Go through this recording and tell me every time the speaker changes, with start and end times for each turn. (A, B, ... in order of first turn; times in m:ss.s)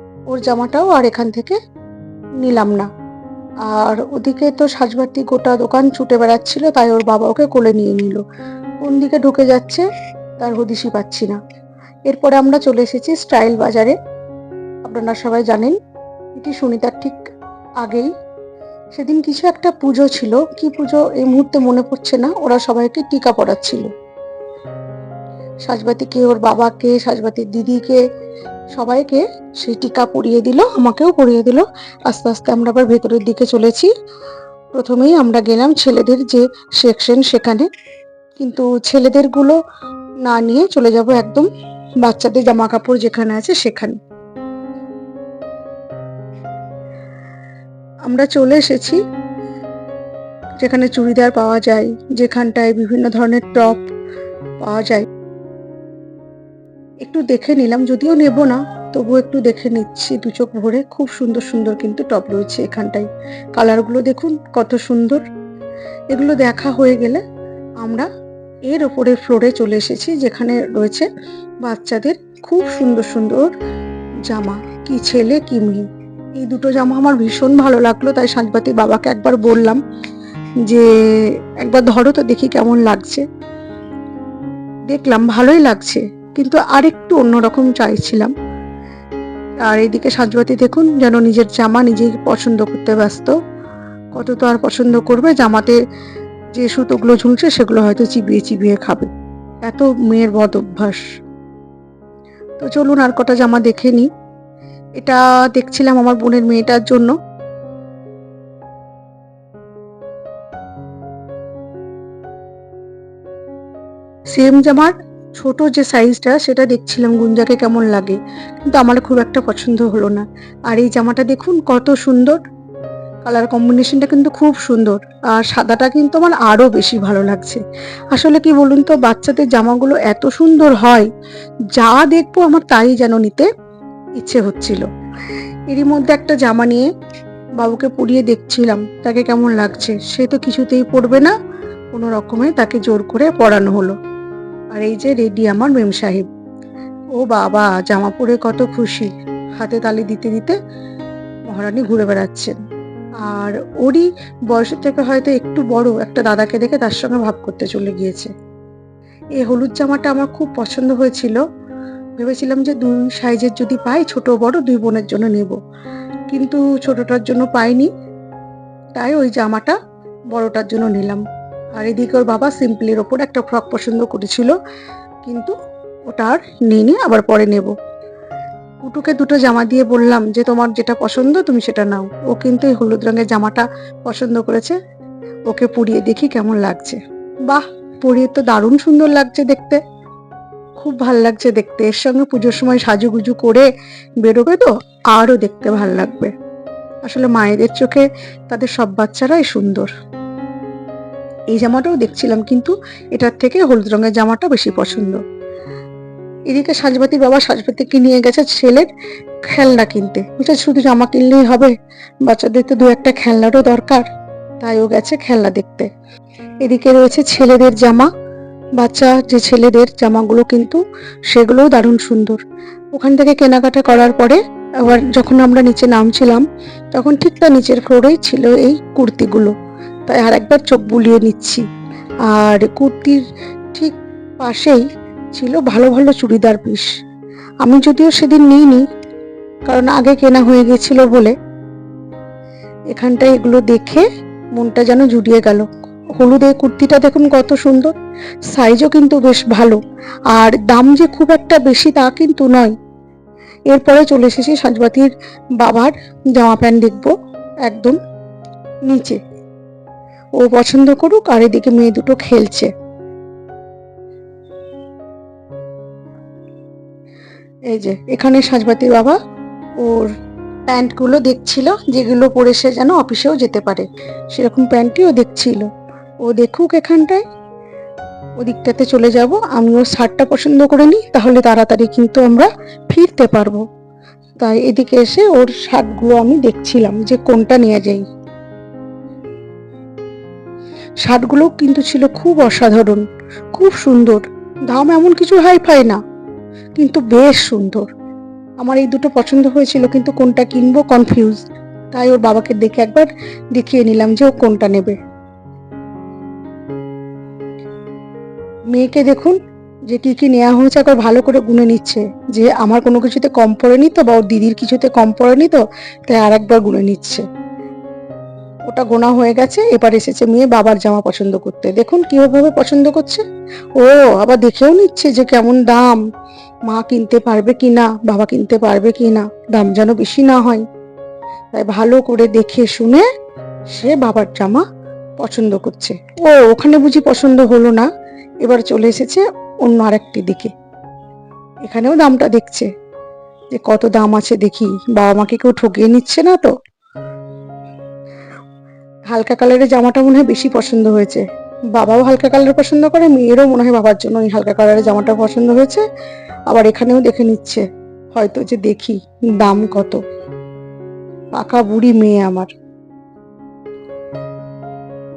0:00.3-0:01.6 A
0:02.4-0:02.9 A
0:03.6-0:08.2 A
0:08.8-0:09.8 A
0:10.4-0:11.4 A
0:12.1-0:14.0 A
0:14.8-0:15.8 A
0:16.4-0:17.2 A
0:17.8-0:18.1 A
0:18.9-0:23.9 A
0:25.6-0:28.0 A
0:28.7-0:33.9 A
0:34.7-0:37.7 A
0:38.4-0:39.6 A
0:40.2-0:41.5 A
0:42.0-0:44.0 A
0:48.1-0:49.0 A
0:50.6-0:53.9 A
0:54.6-0:55.1 A
0:57.0-1:05.2 A
1:06.1-1:07.2 A
1:07.8-1:08.1 A
1:08.7-1:11.1 A
1:11.6-1:13.5 A
1:14.2-1:15.8 A
1:16.4-1:19.8 A
1:20.6-1:23.2 A
1:24.9-1:28.3 A
1:29.6-1:33.3 A
1:34.1-1:35.8 A
1:36.6-1:39.1 A
1:39.6-1:41.0 A
1:42.6-1:44.1 A
1:45.0-1:47.1 A
1:54.3-2:02.4 A
2:03.2-2:07.6 A
2:08.1-2:11.1 A
2:11.7-2:13.5 A
2:14.2-2:14.8 A
2:15.7-2:16.9 A
2:17.6-2:21.3 A
2:21.9-2:23.9 A
2:24.7-2:26.3 A
2:27.1-2:30.6 A
2:31.5-2:32.5 A
2:33.2-2:38.3 A
2:39.4-2:41.4 A
2:42.2-2:45.6 A
2:46.3-2:47.9 A
2:49.0-2:49.8 A
2:50.3-2:51.2 A
2:51.8-2:54.6 A
2:55.2-2:55.5 A
2:56.1-2:57.7 A
2:58.8-3:04.8 A
3:05.5-3:09.8 A
3:10.8-3:13.7 A
3:14.2-3:16.3 A
3:17.0-3:19.9 A
3:21.5-3:25.2 A
3:26.5-3:28.9 A
3:29.5-3:34.0 A
3:34.6-3:35.9 A
3:36.6-3:38.1 A
3:38.8-3:42.4 A
3:42.9-3:49.5 A
3:50.1-3:51.6 A
3:52.3-3:53.2 A
3:53.7-3:56.9 A
3:57.6-3:58.8 A
3:59.7-4:01.3 A
4:02.9-4:07.9 A
4:08.5-4:09.8 A
4:10.3-4:12.7 A
4:13.7-4:17.1 A
4:17.6-4:18.0 A
4:18.9-4:19.2 A
4:20.4-4:22.7 A
4:27.7-4:29.2 A
4:29.8-4:30.1 A
4:30.7-4:35.7 A
4:36.2-4:37.2 A
4:38.4-4:43.6 A
4:44.4-4:48.0 A
4:51.0-4:56.0 A
4:56.8-4:57.9 A
4:58.6-5:01.4 A
5:01.9-5:05.0 A
5:08.7-5:09.4 A
5:09.9-5:17.2 A
5:18.7-5:23.2 A
5:23.8-5:26.0 A
5:26.7-5:30.6 A
5:31.5-5:33.0 A
5:33.7-5:34.6 A
5:35.2-5:37.9 A
5:38.4-5:40.5 A
5:41.6-5:42.7 A
5:43.5-5:46.5 A
5:49.1-5:55.8 A
5:56.5-5:57.6 A
5:58.1-6:00.0 A
6:01.4-6:02.5 A